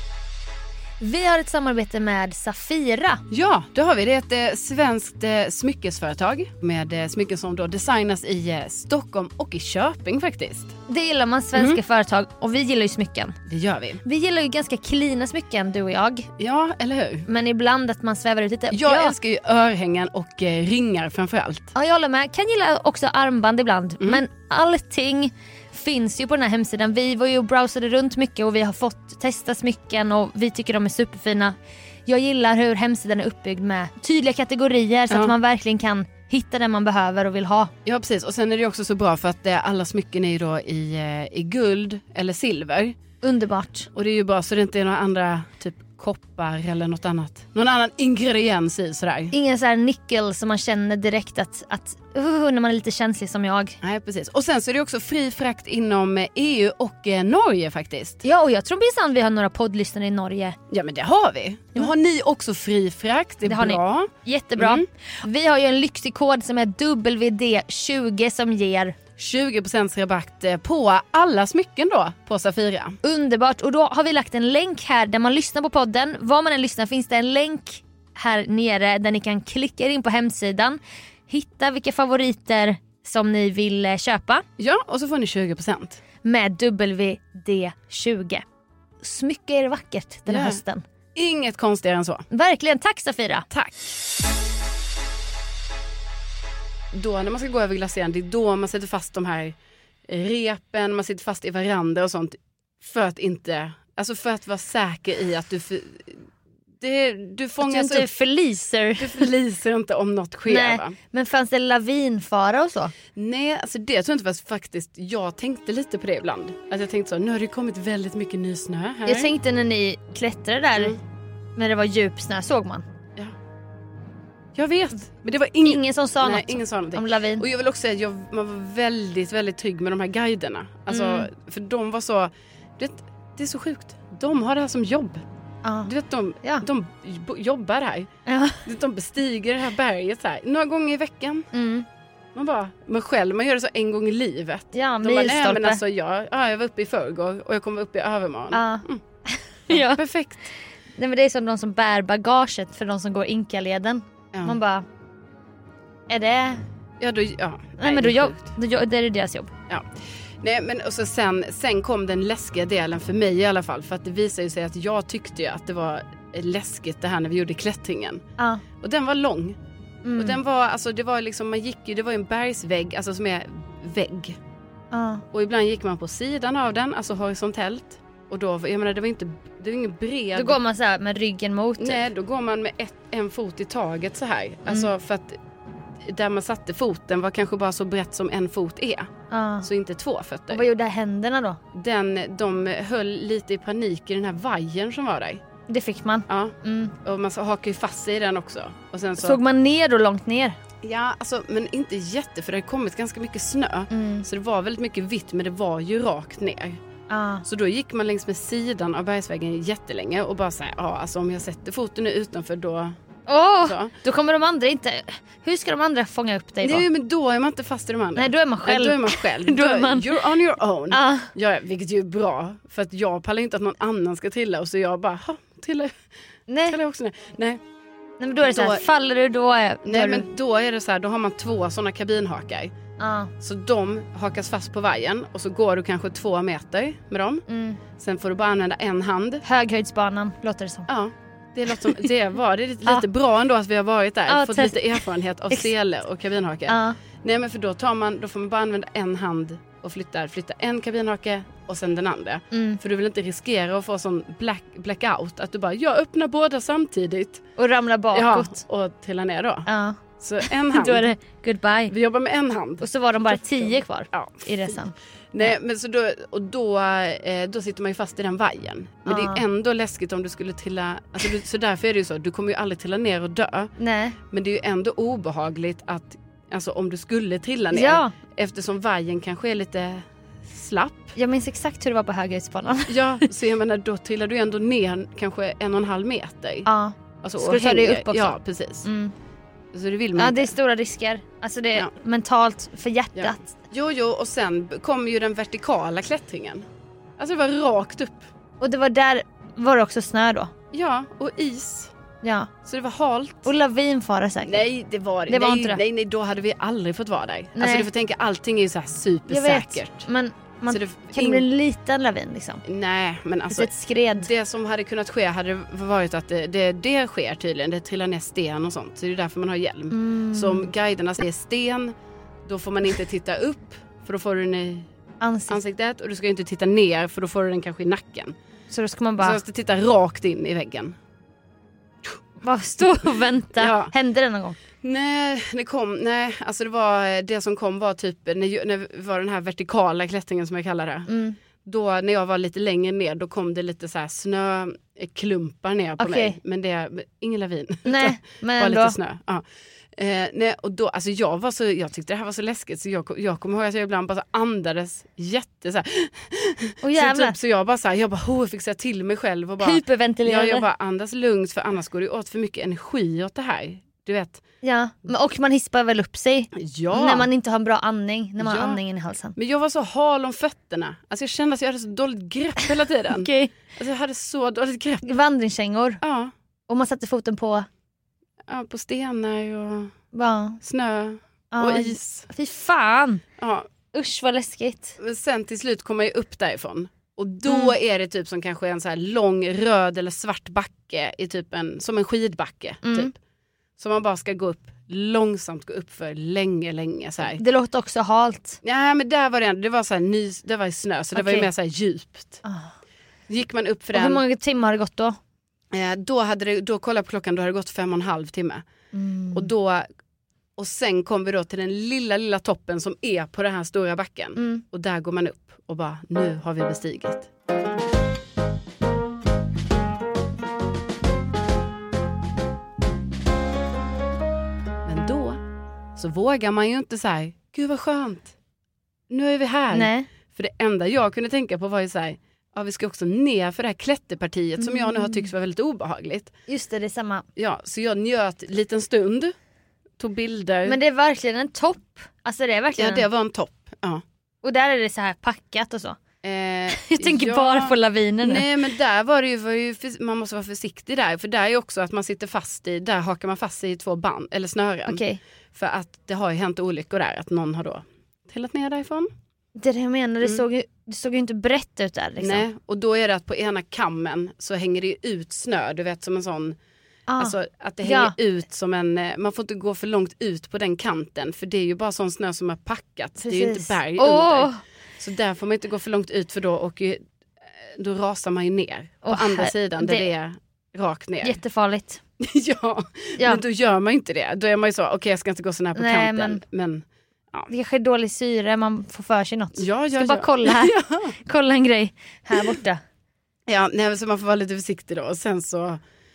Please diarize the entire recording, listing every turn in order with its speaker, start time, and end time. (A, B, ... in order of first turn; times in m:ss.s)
0:01.0-0:03.2 A
0:03.3-0:10.8 B
0:10.9-0:13.4 A
0:11.6-0:11.8 B
0:13.5-0:14.0 B
0:14.0-0:16.3 A
0:16.4-0:17.3 B
0:17.3-0:19.2 A
0:18.7-0:21.7 B
0:21.8-0:37.7 A
0:37.8-0:43.0 B
0:43.2-0:43.9 A
0:44.0-0:49.3 B
0:49.3-0:53.8 A
0:53.8-0:58.2 B
0:58.2-1:00.6 A
1:00.7-1:04.8 B
1:03.4-1:09.0 A
1:09.2-1:13.0 B
1:13.0-1:24.4 A
1:24.6-1:26.0 B
1:26.2-1:28.4 A
1:29.0-1:30.8 A
1:30.3-1:30.6 B
1:31.2-1:32.3 B
1:32.3-1:33.5 A
1:33.5-1:33.9 B
1:36.9-1:39.6 B
1:40.1-1:46.2 B
1:46.8-1:48.1 B
1:47.6-1:49.3 A
1:49.0-1:51.0 B
1:50.5-1:52.9 A
1:53.2-1:59.3 B
1:59.1-2:01.0 A
2:01.6-2:02.8 A
2:04.6-2:15.2 B
2:05.6-2:07.4 A
2:10.9-2:11.3 A
2:15.6-2:15.9 A
2:15.8-2:18.1 B
2:18.3-2:18.6 A
2:18.6-2:21.5 B
2:21.5-2:21.9 A
2:22.4-2:29.0 B
2:24.7-2:25.8 A
2:28.5-2:30.0 A
2:29.7-2:30.5 B
2:31.0-2:34.8 A
2:34.3-2:34.6 B
2:36.1-2:36.6 A
2:37.0-2:38.5 B
2:37.8-2:39.5 A
2:40.4-2:48.2 B
2:48.4-2:48.6 A
2:48.8-2:49.6 B
2:50.0-2:50.4 A
2:50.2-2:54.4 B
2:54.9-2:55.2 A
2:55.3-3:00.6 B
3:00.4-3:02.0 A
3:01.8-3:05.4 B
3:06.0-3:09.1 B
3:09.3-3:09.7 A
3:09.6-3:10.6 B
3:10.5-3:11.6 A
3:11.7-3:15.4 B
3:15.7-3:16.9 A
3:16.3-3:19.4 B
3:19.2-3:20.6 A
3:20.8-3:26.8 B
3:23.9-3:24.2 A
3:27.1-3:27.4 A
3:27.4-3:33.0 B
3:33.3-3:36.8 A
3:33.6-3:33.9 B
3:36.6-3:45.9 B
3:38.2-3:40.2 A
3:40.9-3:41.3 A
3:46.5-3:46.8 A
3:46.7-3:47.6 B
3:48.2-3:50.3 A
3:48.4-3:48.8 B
3:49.8-3:52.7 B
3:53.0-3:53.3 A
3:53.4-3:57.4 B
3:57.5-3:57.8 A
3:58.0-3:59.4 B
3:59.4-4:00.9 A
4:00.9-4:17.4 B
4:01.8-4:02.1 A
4:04.3-4:05.7 A
4:06.7-4:07.0 A
4:12.5-4:12.8 A
4:17.6-4:18.6 A
4:18.1-4:19.7 B
4:19.7-4:20.0 A
4:20.2-4:21.1 B
4:20.7-4:21.9 A
4:21.9-4:24.8 B
4:22.8-4:25.5 A
4:25.3-4:33.7 B
4:29.1-4:29.4 A
4:33.8-4:34.2 A
4:34.3-4:41.2 B
4:37.7-4:38.1 A
4:41.2-4:43.0 A
4:42.9-4:46.7 B
4:46.7-4:49.1 A
4:47.2-4:48.9 B
4:49.7-4:50.5 B
4:50.2-4:53.5 A
4:53.2-4:56.7 B
4:57.2-4:58.3 B
4:58.6-5:00.5 A
5:00.7-5:01.9 B
5:02.2-5:02.5 A
5:02.6-5:03.5 B
5:03.5-5:04.6 A
5:04.4-5:10.1 B
5:05.3-5:05.8 A
5:07.6-5:07.9 A
5:09.3-5:12.6 A
5:10.7-5:11.4 B
5:12.6-5:21.9 B
5:13.5-5:14.3 A
5:19.9-5:20.7 A
5:22.4-5:24.9 B
5:25.2-5:25.6 A
5:25.5-5:28.4 B
5:28.7-5:29.4 A
5:29.2-5:31.0 B
5:32.4-5:34.6 A
5:33.6-5:33.9 B
5:34.8-5:41.1 B
5:41.1-5:41.4 A
5:41.6-5:49.4 B
5:46.0-5:46.4 A
5:47.9-5:49.0 A
5:50.0-6:04.4 B
5:56.8-5:57.4 A
5:59.6-6:00.7 A
6:04.6-6:09.4 A
6:06.5-6:07.3 B
6:08.4-6:08.8 B
6:09.4-6:15.1 B
6:13.1-6:13.5 A
6:15.0-6:16.0 A
6:16.0-6:16.3 B
6:16.7-6:17.7 A
6:18.5-6:19.9 B
6:20.1-6:20.6 A
6:20.6-6:22.3 B
6:21.5-6:23.2 A
6:23.4-6:23.7 B
6:23.9-6:25.0 A
6:25.0-6:33.2 B
6:27.5-6:27.7 A
6:32.8-6:33.1 A
6:33.8-6:37.4 B
6:37.4-6:38.6 A
6:38.6-6:42.4 B
6:41.2-6:41.5 A
6:42.4-6:42.7 A
6:43.3-6:44.2 B
6:43.9-6:45.2 A
6:45.7-6:48.6 B
6:48.9-6:49.5 A
6:49.3-6:49.9 B
6:50.6-6:57.3 B
6:54.4-6:54.6 A
7:04.9-7:05.4 B
7:06.0-7:08.3 B
7:09.1-7:16.3 B
7:09.7-7:10.1 A
7:14.6-7:15.3 A
7:16.5-7:17.2 A
7:17.4-7:19.3 B
7:20.0-7:20.8 B
7:20.7-7:23.0 A
7:22.8-7:24.0 B
7:24.4-7:26.0 A
7:26.2-7:35.0 B
7:26.8-7:28.5 A
7:34.9-7:35.2 A
7:35.6-7:39.1 B
7:39.6-7:42.4 A
7:42.2-7:46.6 B
7:47.1-7:48.2 A
7:47.2-7:57.0 B
7:53.2-7:54.6 A
7:57.7-8:01.4 B
7:59.0-8:00.1 A
8:01.2-8:02.0 A
8:02.2-8:07.5 B
8:05.8-8:06.4 A
8:07.5-8:10.7 A
8:09.6-8:11.2 B
8:11.3-8:12.8 A
8:13.5-8:15.8 B